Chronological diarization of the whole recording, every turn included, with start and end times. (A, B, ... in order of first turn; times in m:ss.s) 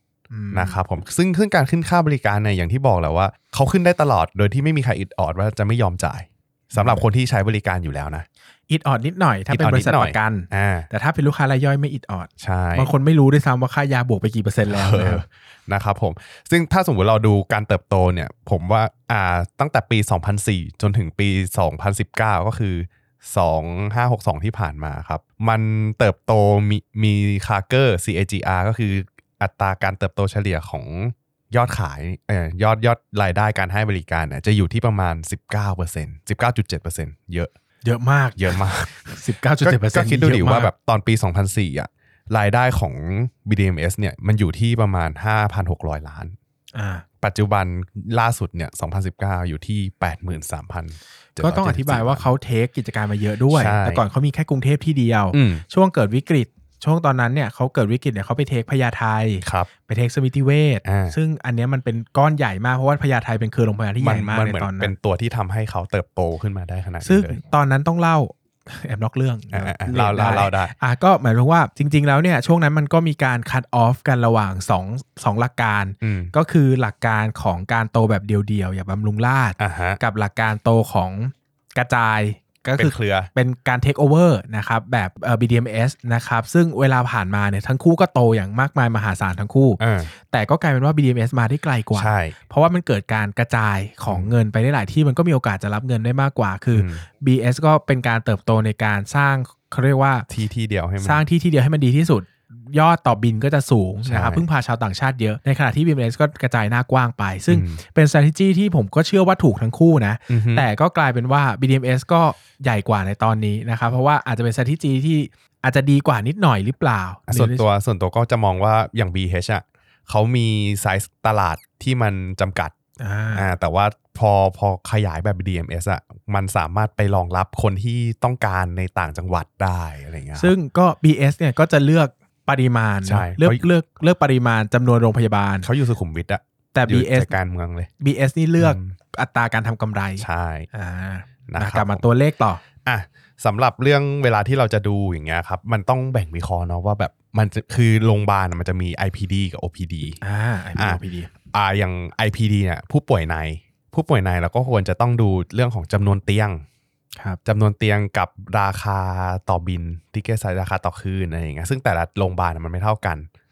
0:00.3-0:00.8 A
0:00.5-0:08.2 B
0:06.7-0:07.0 A
0:08.7-0:15.2 A
0:09.5-0:10.9 B
0:12.4-0:12.9 B
0:14.7-0:37.5 B
0:37.8-0:40.7 A
0:38.4-0:39.0 B
0:39.6-0:46.4 B
0:46.7-0:47.0 A
0:47.2-0:52.2 B
0:51.4-1:04.9 A
0:53.5-0:54.0 B
0:55.3-0:55.6 B
0:59.4-0:59.7 B
1:00.8-1:01.2 B
1:04.0-1:07.4 B
1:07.0-1:40.3 A
1:09.5-1:10.7 B
1:16.0-1:16.3 B
1:19.6-1:20.0 B
1:22.8-1:23.3 B
1:29.8-1:30.1 B
1:31.9-1:32.4 B
1:34.1-1:34.3 B
1:36.7-1:37.0 B
1:40.3-1:41.2 B
1:41.0-1:57.6 A
1:44.0-1:44.4 B
1:47.5-1:47.8 B
1:50.3-1:50.7 B
1:57.3-2:02.7 B
2:03.0-2:03.5 A
2:03.3-2:10.5 B
2:10.4-2:15.7 A
2:13.0-2:13.6 B
2:15.6-2:17.9 B
2:16.7-2:17.3 A
2:18.0-2:22.6 A
2:18.6-2:18.9 B
2:20.2-2:20.7 B
2:21.5-2:22.0 B
2:22.8-2:30.2 B
2:30.2-2:31.3 A
2:31.5-2:36.6 B
2:37.4-2:43.3 B